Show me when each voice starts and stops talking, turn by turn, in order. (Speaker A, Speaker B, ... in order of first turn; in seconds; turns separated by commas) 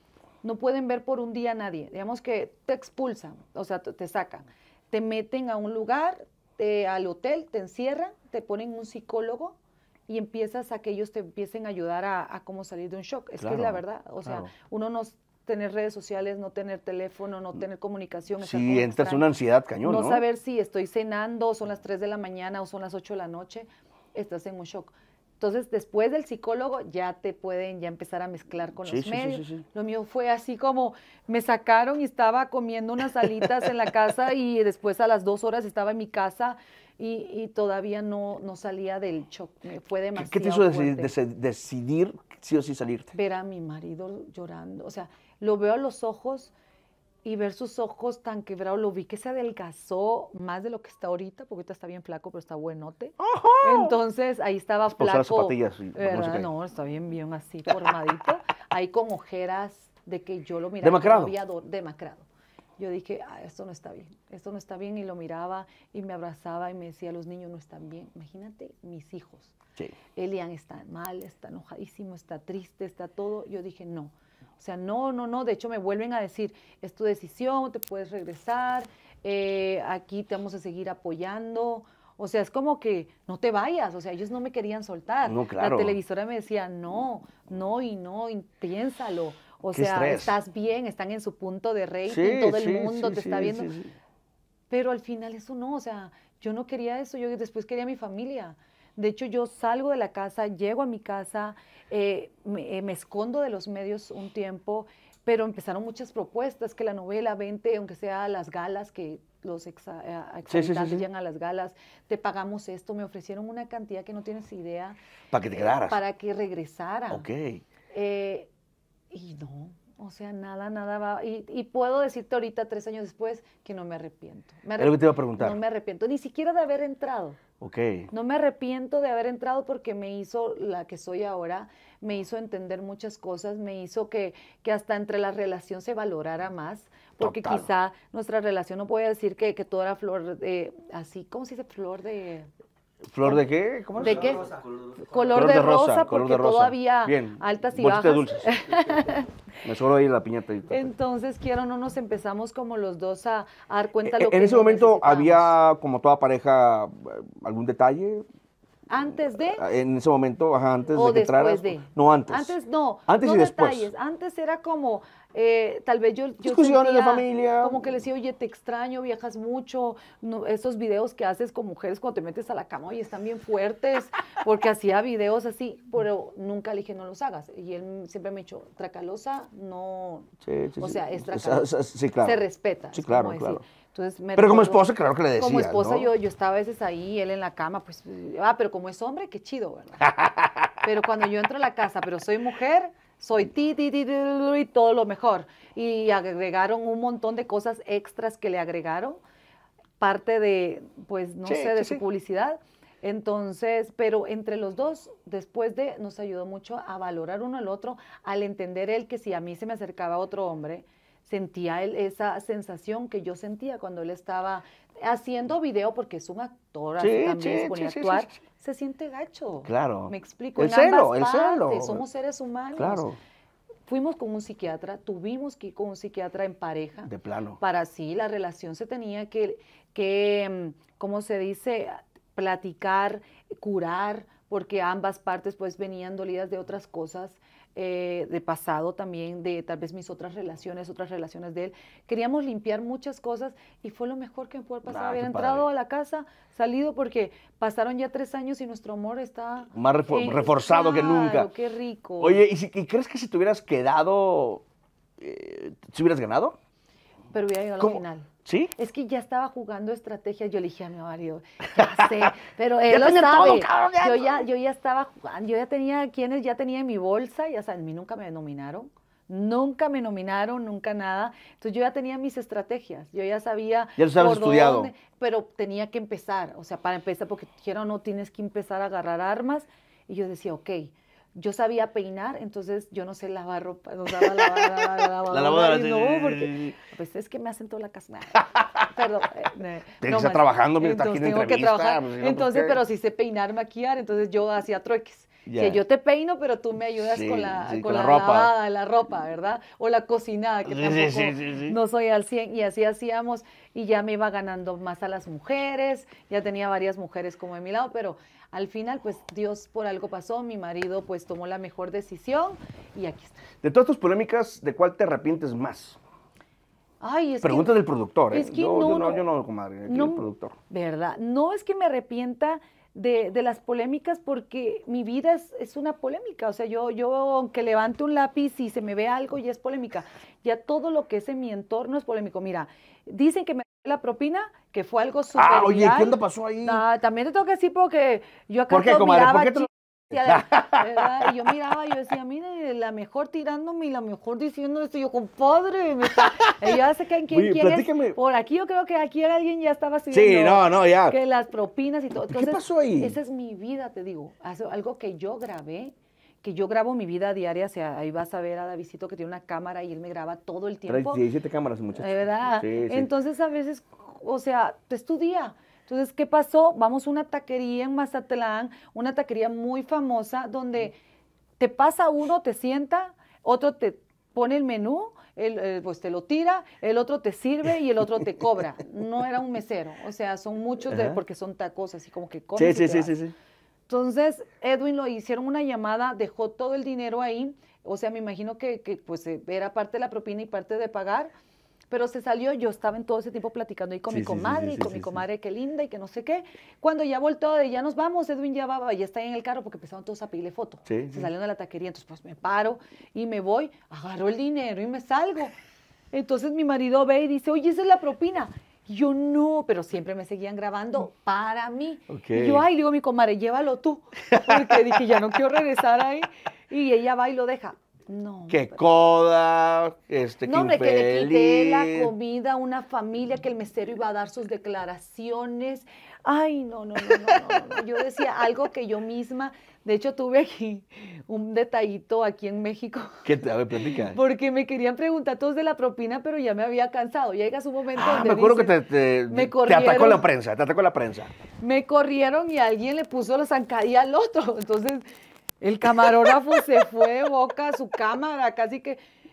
Speaker A: 0.4-9.6, Speaker A: 10.1-19.3, Speaker B: 13.4-14.5, Speaker B: 18.4-20.2, Speaker A: 19.8-41.1, Speaker B: 28.8-29.6, Speaker B: 40.2-43.1, Speaker A: 43.1-46.5, Speaker A: 47.2-62.3, Speaker B: 53.2-54.0, Speaker B: 54.9-56.5, Speaker B: 60.8-61.4, Speaker A: 62.8-69.5, Speaker A: 70.2-93.7, Speaker B: 85.3-86.0, Speaker B: 89.7-90.4, Speaker B: 92.1-93.9, Speaker A: 94.7-115.0, Speaker B: 110.5-111.0, Speaker B: 115.3-116.0, Speaker A: 115.5-117.2, Speaker B: 117.1-117.6, Speaker A: 117.9-118.5, Speaker A: 119.1-127.4, Speaker B: 124.8-125.6, Speaker B: 127.6-128.1, Speaker A: 128.1-142.5, Speaker B: 137.2-137.7, Speaker B: 143.1-144.4, Speaker A: 144.0-149.3, Speaker B: 145.3-148.8, Speaker B: 149.6-150.9, Speaker A: 150.7-155.5, Speaker B: 154.0-158.3, Speaker A: 158.9-159.6, Speaker B: 159.3-162.5, Speaker A: 160.9-181.7, Speaker B: 163.1-163.9, Speaker B: 166.4-167.9, Speaker B: 180.4-182.4, Speaker A: 182.2-184.8, Speaker B: 182.9-183.6, Speaker B: 184.4-186.1, Speaker A: 185.4-190.1, Speaker B: 190.0-190.7, Speaker A: 190.8-199.2, Speaker A: 200.0-223.1, Speaker B: 201.5-202.0, Speaker B: 217.0-218.4, Speaker B: 219.7-222.0, Speaker B: 222.8-223.2, Speaker A: 223.9-252.4, Speaker B: 227.1-227.6, Speaker B: 244.9-245.7, Speaker B: 249.7-251.5, Speaker B: 252.2-254.6, Speaker B: 255.2-256.6, Speaker A: 257.3-313.4, Speaker B: 257.8-258.7, Speaker B: 261.8-262.3, Speaker B: 262.9-264.4, Speaker B: 274.0-274.9, Speaker B: 284.2-286.8, Speaker B: 288.4-288.9, Speaker B: 290.0-292.8, Speaker B: 295.5-295.8, Speaker B: 297.0-298.5, Speaker B: 300.7-301.8, Speaker B: 313.6-316.0, Speaker A: 317.0-317.8, Speaker B: 317.4-320.6, Speaker A: 318.3-319.2, Speaker A: 319.9-361.2, Speaker B: 335.4-336.8, Speaker B: 338.7-339.7, Speaker B: 340.2-341.5, Speaker B: 346.1-346.8, Speaker B: 347.3-348.2, Speaker B: 350.1-351.2, Speaker B: 352.3-353.2, Speaker B: 360.9-363.1, Speaker A: 362.0-371.0, Speaker A: 371.6-383.1, Speaker B: 380.9-381.2, Speaker B: 382.6-383.3, Speaker A: 383.9-391.3, Speaker A: 391.9-405.6, Speaker B: 394.1-395.2, Speaker B: 400.9-401.3, Speaker A: 406.1-418.8, Speaker B: 412.1-412.6, Speaker B: 414.3-414.8, Speaker B: 418.5-422.1, Speaker A: 420.4-433.3, Speaker B: 433.2-434.2, Speaker A: 434.1-440.3, Speaker B: 437.9-441.3, Speaker A: 441.6-445.0, Speaker A: 445.6-449.0